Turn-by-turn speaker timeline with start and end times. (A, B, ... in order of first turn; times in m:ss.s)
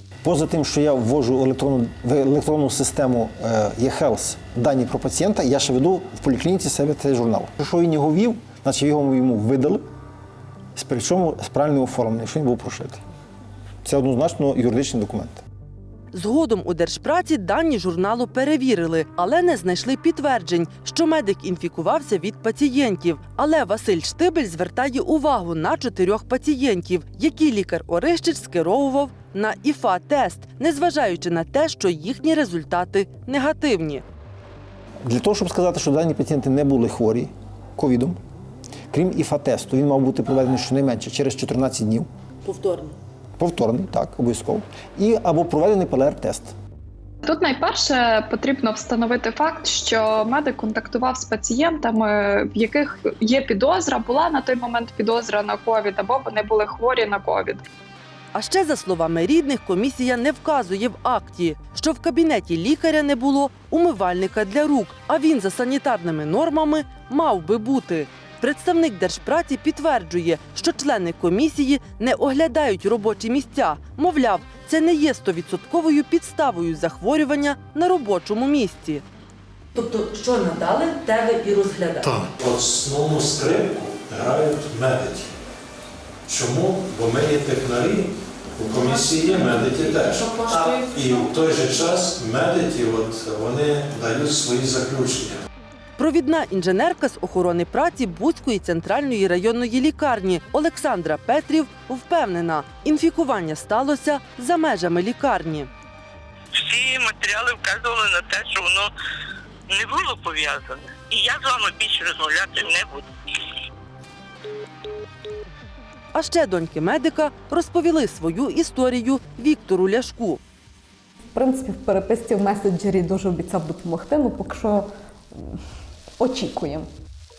0:00.2-0:09.8 A
0:10.7-0:13.0 A
0:13.8-0:15.4 A
0:16.1-0:34.0 B
0:35.0-0:38.2 A
0:38.9-0:42.1 A
0:42.4-0:43.0 B
0:43.4-0:46.5 A
0:47.2-0:57.6 C
0:58.3-1:19.0 B
1:19.7-1:22.1 B
1:22.0-1:25.3 D
1:26.3-1:35.4 D
1:30.2-1:30.7 B
1:36.0-1:45.7 B
1:46.6-1:48.9 E
1:49.7-1:53.0 E
1:56.1-2:00.4 B
2:01.3-2:05.4 F
2:06.2-2:06.9 F